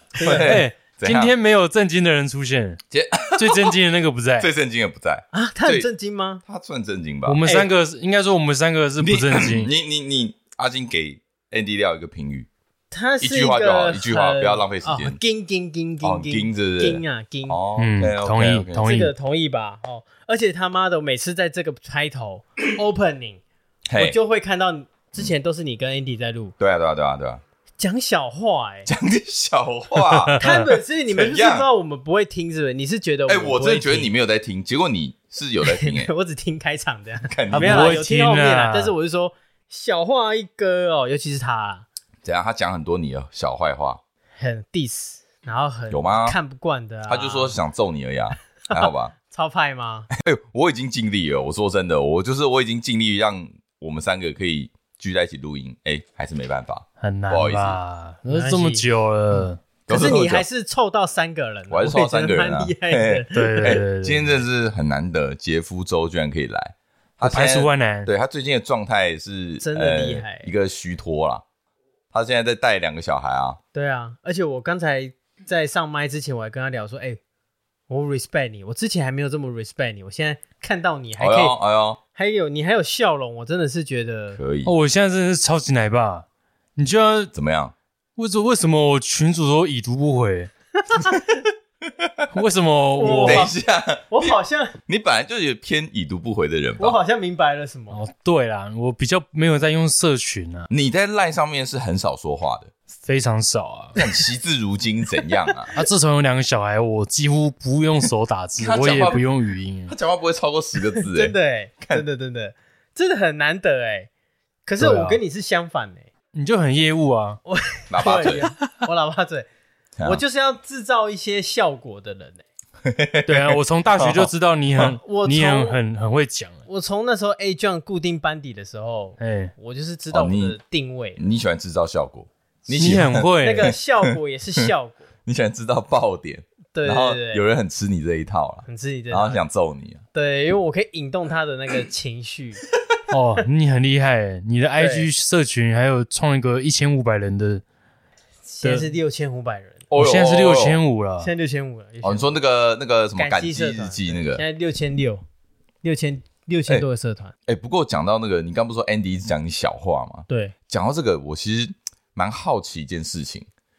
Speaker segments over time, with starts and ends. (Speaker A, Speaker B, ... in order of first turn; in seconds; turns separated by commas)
Speaker A: 0.2-0.6, Speaker B: 0.2-1.3, Speaker C: 0.4-2.8, Speaker B: 2.9-3.8, Speaker C: 3.3-4.5, Speaker B: 4.4-5.9, Speaker A: 5.3-6.4, Speaker B: 6.4-7.4, Speaker C: 7.2-9.7, Speaker B: 9.0-12.5, Speaker A: 12.9-17.6, Speaker B: 13.2-15.2, Speaker B: 16.0-19.0, Speaker C: 17.8-19.1, Speaker A: 18.8-23.4, Speaker B: 23.9-24.2, Speaker A: 23.9-26.5, Speaker B: 26.6-27.4, Speaker A: 27.8-28.9, Speaker B: 28.9-30.4, Speaker A: 30.4-34.1, Speaker B: 31.1-31.7, Speaker B: 33.3-36.1, Speaker A: 35.6-41.9, Speaker B: 37.3-38.0, Speaker C: 37.5-38.9, Speaker B: 42.2-44.0, Speaker A: 44.4-47.6, Speaker B: 45.9-46.4, Speaker B: 47.1-49.1, Speaker A: 48.7-50.1, Speaker B: 50.1-57.8, Speaker C: 57.0-59.6, Speaker A: 58.3-58.8, Speaker B: 59.9-60.5, Speaker A: 59.9-63.8, Speaker B: 61.7-71.4, Speaker C: 63.3-64.3, Speaker C: 67.2-68.1, Speaker A: 69.6-70.5, Speaker B: 72.1-73.6, Speaker A: 73.7-77.2, Speaker A: 77.9-81.6, Speaker B: 81.2-82.0, Speaker A: 82.1-84.4, Speaker B: 84.3-84.7, Speaker C: 84.6-87.3, Speaker B: 87.3-87.7, Speaker C: 88.2-90.5, Speaker A: 90.9-91.4, Speaker B: 91.8-92.3, Speaker C: 92.3-93.4, Speaker A: 93.0-93.5, Speaker B: 93.0-94.3, Speaker A: 94.1-94.8, Speaker B: 94.9-97.0, Speaker A: 96.8-98.0, Speaker C: 97.9-100.7, Speaker B: 100.7-102.7, Speaker C: 103.0-104.0, Speaker B: 103.9-105.7, Speaker C: 105.7-109.9, Speaker B: 108.6-109.2, Speaker B: 109.8-112.0, Speaker A: 111.0-114.1, Speaker A: 114.7-116.1, Speaker C: 114.8-115.2, Speaker C: 116.3-117.4, Speaker A: 117.5-119.5, Speaker B: 117.9-118.5, Speaker A: 120.0-122.4, Speaker B: 122.8-124.9, Speaker C: 123.3-126.6, Speaker A: 125.0-125.8, Speaker A: 126.7-131.2, Speaker C: 129.2-129.5, Speaker B: 130.1-130.6, Speaker B: 131.2-133.8, Speaker C: 132.8-133.7, Speaker A: 133.4-135.1, Speaker B: 135.2-140.0, Speaker A: 136.7-137.4, Speaker A: 138.7-139.4, Speaker A: 140.1-142.6, Speaker C: 143.1-147.6, Speaker A: 144.8-145.1, Speaker A: 148.5-149.8, Speaker C: 148.6-148.9, Speaker B: 149.9-150.8, Speaker C: 150.0-151.3, Speaker A: 151.2-152.3, Speaker B: 152.0-154.4, Speaker A: 153.2-155.2, Speaker A: 155.8-157.3, Speaker B: 157.4-163.4, Speaker A: 160.3-160.5